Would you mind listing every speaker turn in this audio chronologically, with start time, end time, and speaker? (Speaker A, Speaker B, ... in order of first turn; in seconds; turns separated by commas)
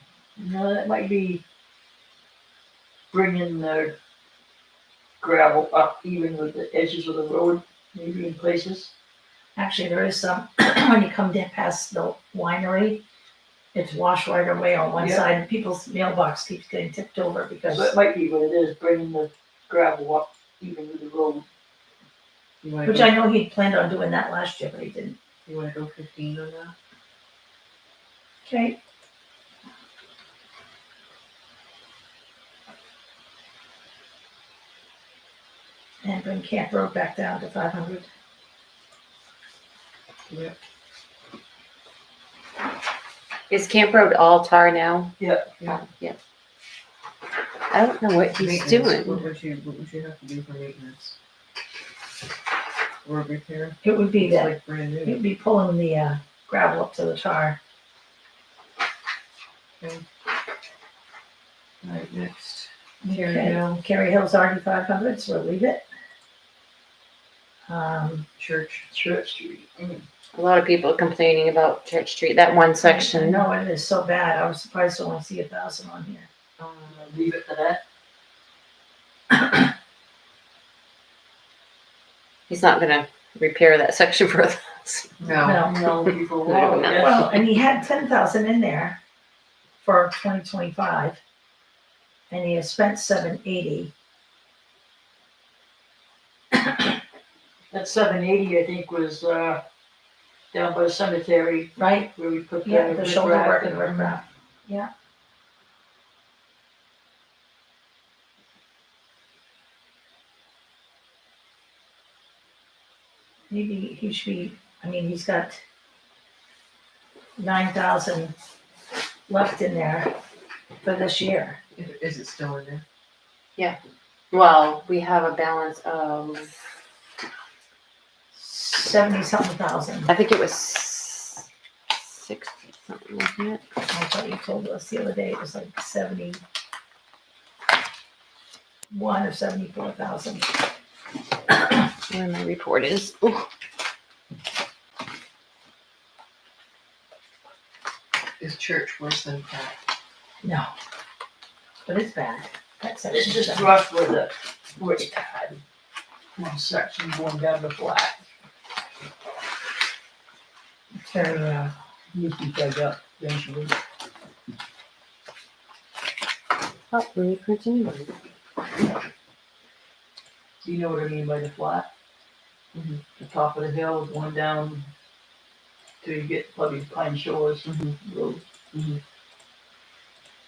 Speaker A: 0.4-1.4, Speaker A: 3.1-4.0, Speaker A: 5.2-8.9, Speaker B: 9.6-13.0, Speaker B: 13.7-17.9, Speaker A: 15.0-15.2, Speaker A: 17.7-21.4, Speaker C: 22.6-23.1, Speaker B: 22.8-25.2, Speaker C: 25.4-26.7, Speaker B: 28.4-28.8, Speaker B: 36.0-38.1, Speaker C: 40.3-40.6, Speaker D: 43.5-46.2, Speaker A: 45.2-45.5, Speaker D: 47.7-49.2, Speaker C: 48.3-51.1, Speaker C: 53.0-55.2, Speaker B: 53.8-54.5, Speaker B: 55.0-57.6, Speaker C: 61.8-63.8, Speaker B: 63.0-65.8, Speaker B: 67.7-68.2, Speaker C: 68.4-68.9, Speaker A: 68.9-70.0, Speaker D: 70.3-73.4, Speaker B: 72.8-76.3, Speaker C: 76.6-77.2, Speaker A: 76.9-77.8, Speaker B: 79.3-79.7, Speaker D: 82.5-85.1, Speaker C: 85.2-85.7, Speaker B: 85.4-85.7, Speaker A: 85.6-87.4, Speaker D: 86.0-87.0, Speaker B: 86.8-89.0, Speaker B: 89.8-91.2, Speaker B: 92.3-93.9, Speaker A: 97.7-99.6, Speaker A: 100.5-104.2, Speaker B: 101.8-102.1, Speaker B: 102.6-104.9, Speaker B: 113.5-115.6, Speaker B: 117.4-118.3, Speaker B: 119.3-120.1, Speaker B: 120.8-121.6, Speaker C: 121.8-122.8, Speaker D: 124.3-126.5, Speaker B: 128.3-130.1, Speaker D: 130.1-133.6, Speaker B: 133.9-136.4, Speaker B: 138.9-140.5, Speaker D: 142.1-143.5, Speaker C: 148.4-149.8, Speaker B: 150.4-150.7, Speaker B: 151.8-153.8, Speaker A: 153.1-155.6, Speaker A: 156.4-158.2, Speaker B: 161.0-161.7, Speaker A: 162.1-163.7, Speaker D: 166.9-168.1, Speaker A: 170.6-171.9, Speaker C: 172.7-173.0, Speaker A: 173.2-174.9, Speaker A: 176.0-178.4, Speaker C: 177.7-178.0, Speaker C: 178.7-179.0